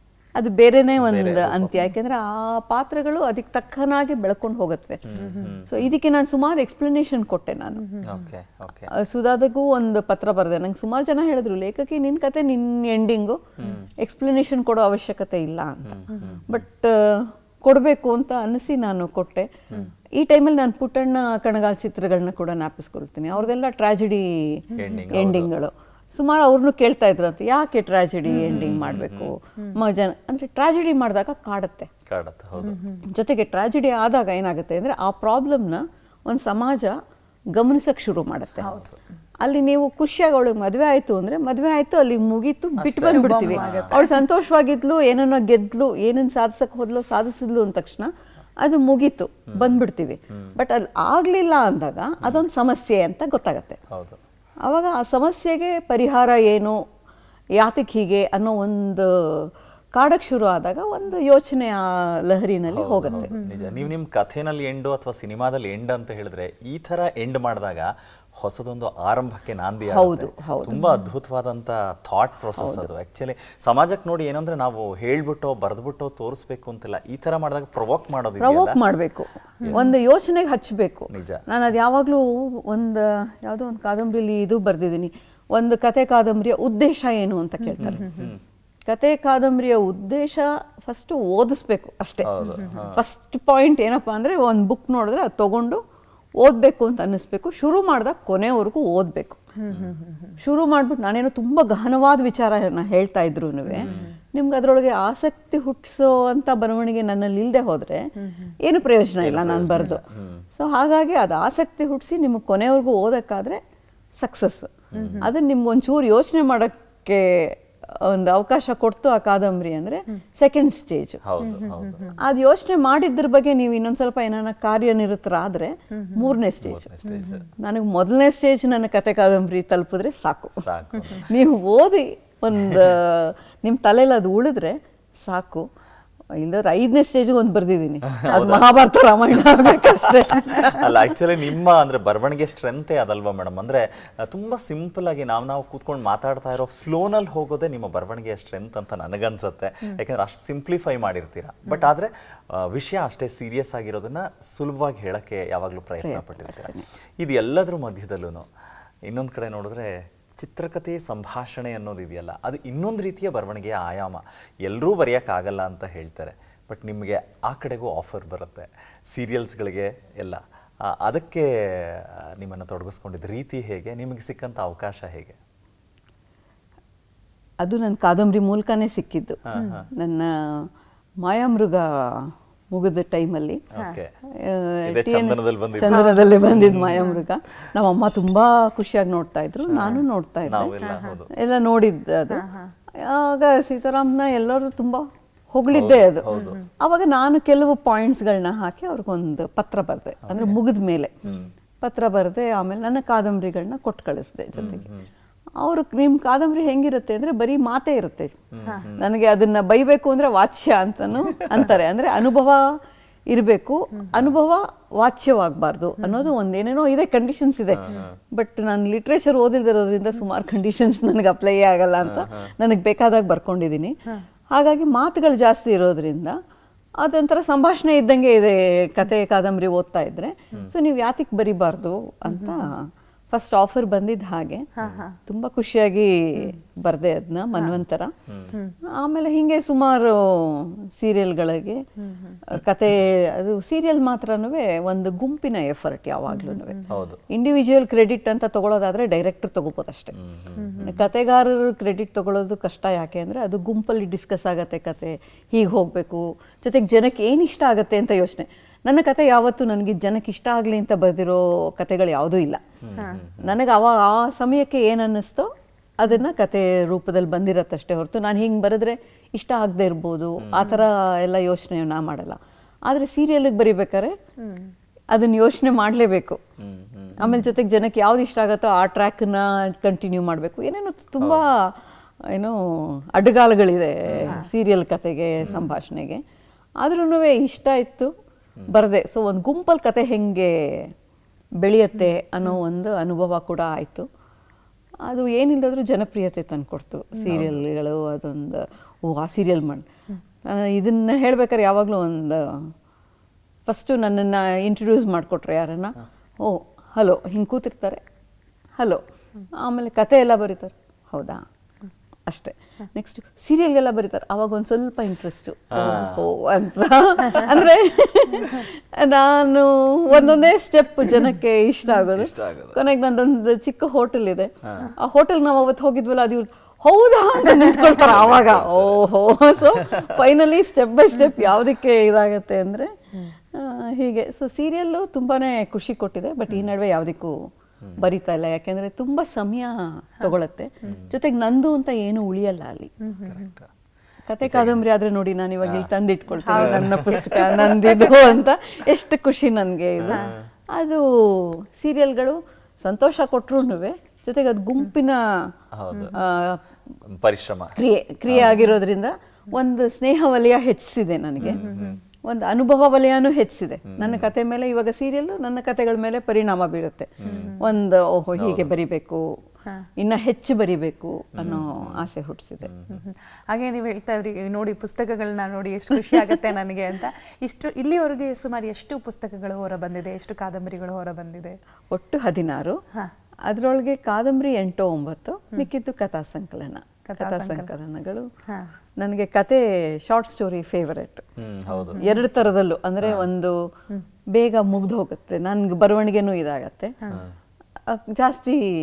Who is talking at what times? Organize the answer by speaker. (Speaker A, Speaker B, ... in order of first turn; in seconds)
Speaker A: 0.4-5.0, 5.7-7.9, 8.9-13.4, 14.0-19.5, 20.2-31.9, 33.1-37.0, 37.5-38.7, 39.4-48.1, 48.6-53.8, 54.6-56.8, 57.6-63.3, 69.9-70.8, 72.6-72.9, 78.4-88.1, 88.9-95.8, 96.4-99.4, 100.4-108.1, 108.6-110.0, 110.5-113.6, 114.2-121.2, 122.2-126.9, 127.6-130.7, 131.2-135.7, 136.4-140.8, 156.0-156.8, 177.6-179.4, 179.9-180.7, 181.2-183.6, 184.4-190.8, 191.3-192.4, 193.0-201.1, 201.8-204.9, 205.6-208.3, 209.0-212.8, 213.3-224.0, 224.5-226.4, 227.0-234.7, 235.3-238.1, 239.0-241.8, 242.5-246.8, 247.3-250.1, 250.8-262.6, 263.4-274.1, 275.1-276.4, 277.2-281.7, 282.3-286.2, 286.8-288.1, 288.7-290.9, 291.6-294.1, 295.1-299.9, 300.4-302.7, 303.7-308.0, 309.6-311.4, 312.3-332.9, 333.6-342.9, 344.3-355.2, 356.1-356.6, 357.8-361.7, 362.2-369.3, 370.0-372.7, 381.9-382.8, 383.5-388.3, 389.0-391.2, 392.0-393.6, 394.3-396.9, 397.9-398.6
Speaker B: 1.0-1.8, 5.1-5.9, 8.0-8.9, 13.6-13.9, 15.8-16.6, 24.8-25.5, 28.3-29.3, 32.1-32.8, 38.5-39.0, 42.8-43.9, 49.5-50.5, 53.9-54.2, 62.7-78.8, 79.6-79.9, 81.1-81.5, 87.8-88.4, 92.2-93.0, 99.7-100.0, 103.8-104.1, 109.2-110.5, 114.9-115.3, 121.2-122.1, 126.6-127.5, 130.6-131.3, 132.6-132.9, 138.1-138.8, 139.5-158.5, 159.1-175.4, 179.5-179.9, 183.7-184.1, 184.9-187.0, 189.7-191.3, 195.7-196.6, 200.2-200.6, 204.5-205.1, 208.5-209.0, 211.3-211.7, 217.7-218.1, 222.0-222.5, 234.8-235.0, 238.3-238.6, 246.9-247.2, 250.2-250.9, 262.8-263.5, 270.4-270.8, 276.6-277.4, 284.1-284.4, 285.4-285.7, 297.3-297.6, 315.7-316.2, 322.1-322.8, 324.6-324.9, 327.9-329.0, 329.6-330.2, 340.8-341.1, 343.2-343.7, 344.4-344.8, 345.6-345.9, 346.5-347.6, 350.0-350.5, 355.7-356.2, 357.1-357.8, 358.3-358.7, 361.4-362.0, 363.9-364.3, 367.2-367.6, 368.4-368.7, 371.3-372.1, 372.6-373.0, 391.4-392.2, 393.0-393.3
Speaker C: 5.2-5.6, 7.8-8.3, 16.1-16.4, 24.7-25.0, 28.3-28.7, 32.6-33.0, 38.6-38.9, 43.0-44.2, 63.1-63.9, 70.7-71.0, 79.6-79.9, 87.8-88.3, 99.6-100.4, 103.7-104.1, 108.2-108.5, 115.0-115.3, 121.4-122.2, 126.0-126.4, 127.1-127.5, 179.6-179.9, 190.8-191.2, 192.3-192.7, 196.3-196.7, 201.2-201.5, 208.7-208.9, 216.0-216.3, 232.3-232.6, 234.8-235.2, 242.0-242.4, 246.3-246.9, 250.6-250.9, 274.4-274.7, 343.0-343.5, 346.5-348.3, 355.9-356.2, 361.4-362.0, 367.2-367.7, 372.9-381.6, 387.1-387.7, 391.7-392.2